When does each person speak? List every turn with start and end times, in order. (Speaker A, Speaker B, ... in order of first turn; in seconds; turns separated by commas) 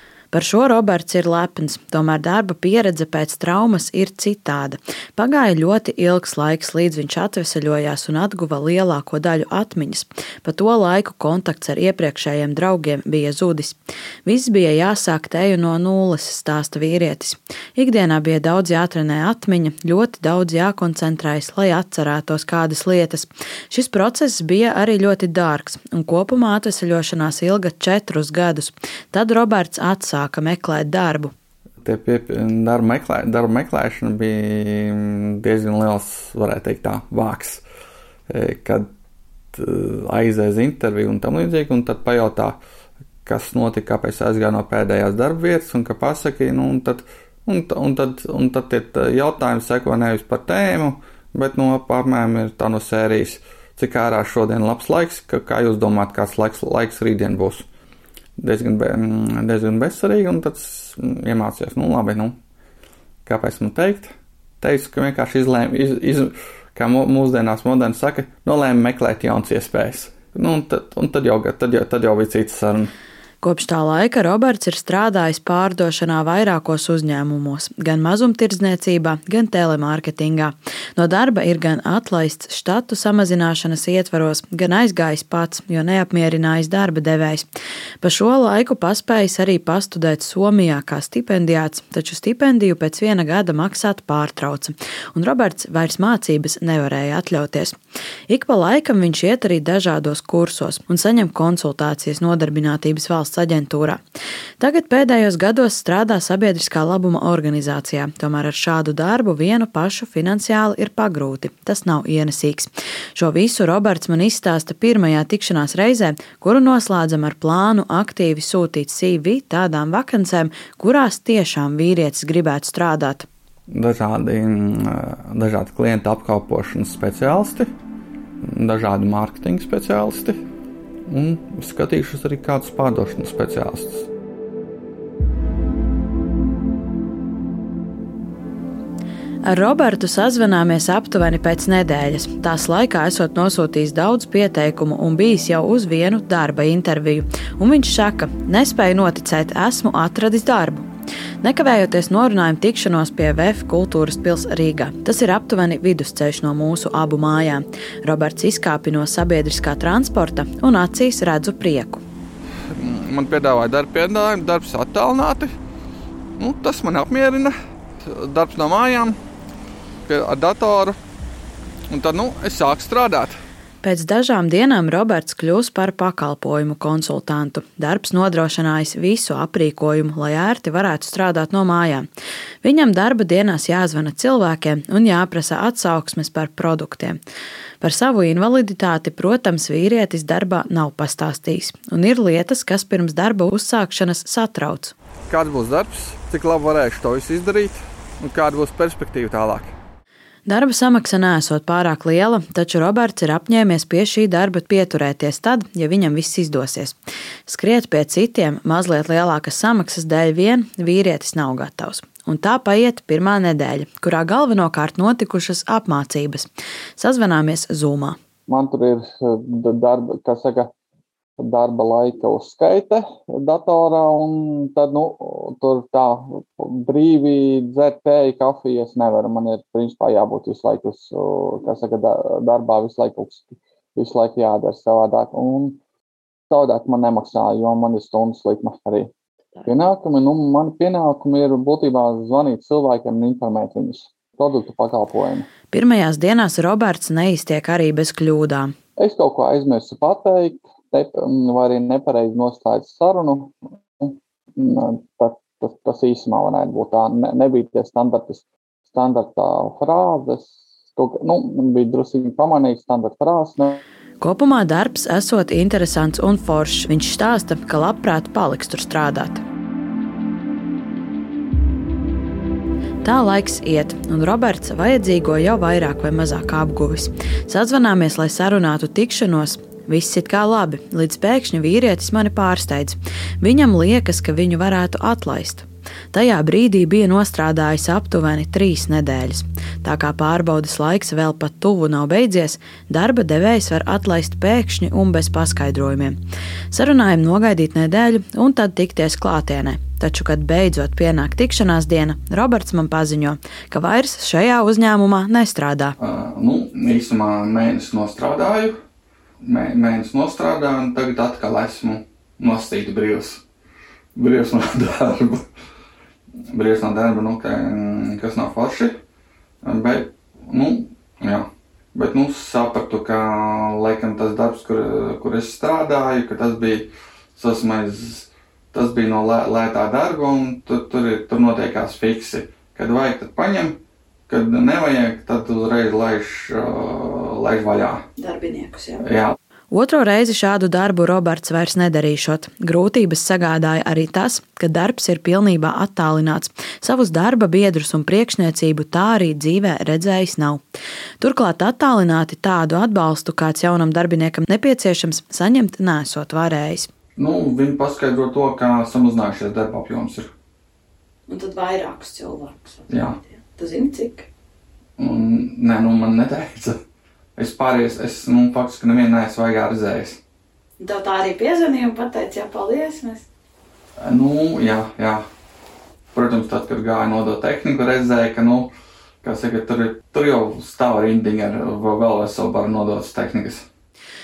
Speaker A: 0.3-31.3, Speaker B: 31.8-37.6, Speaker B: 38.3-38.9, Speaker B: 39.5-42.6, Speaker B: 43.2-57.6, Speaker B: 58.4-62.3, Speaker B: 63.2-72.9, Speaker A: 73.4-87.5, Speaker A: 88.0-97.8, Speaker A: 98.3-104.0, Speaker A: 104.6-123.3, Speaker B: 123.7-127.7, Speaker B: 128.4-130.4, Speaker B: 131.1-134.1, Speaker A: 139.4-150.8, Speaker A: 151.4-162.0, Speaker B: 162.7-165.5, Speaker B: 166.4-169.2, Speaker B: 170.1-171.0, Speaker B: 171.9-173.4, Speaker A: 173.8-182.1, Speaker A: 182.6-187.2, Speaker A: 187.8-194.9, Speaker B: 195.3-199.7, Speaker A: 200.5-218.2, Speaker B: 218.5-220.7, Speaker B: 221.4-235.8, Speaker B: 236.5-239.1, Speaker B: 239.7-245.5, Speaker A: 245.7-248.7, Speaker B: 249.0-263.8, Speaker A: 264.2-269.4, Speaker A: 273.0-296.2, Speaker A: 296.7-305.9, Speaker B: 306.0-308.8, Speaker B: 309.4-313.4, Speaker B: 314.1-315.4, Speaker B: 316.5-318.9, Speaker B: 319.6-338.0, Speaker A: 338.2-339.1, Speaker B: 339.0-339.3, Speaker A: 339.7-350.6, Speaker A: 351.2-356.9, Speaker B: 357.1-360.3, Speaker A: 361.3-364.3, Speaker B: 362.9-363.1, Speaker B: 365.0-366.8, Speaker B: 367.4-370.2, Speaker A: 370.8-373.3, Speaker B: 374.0-375.2, Speaker B: 376.1-378.7, Speaker B: 379.2-383.6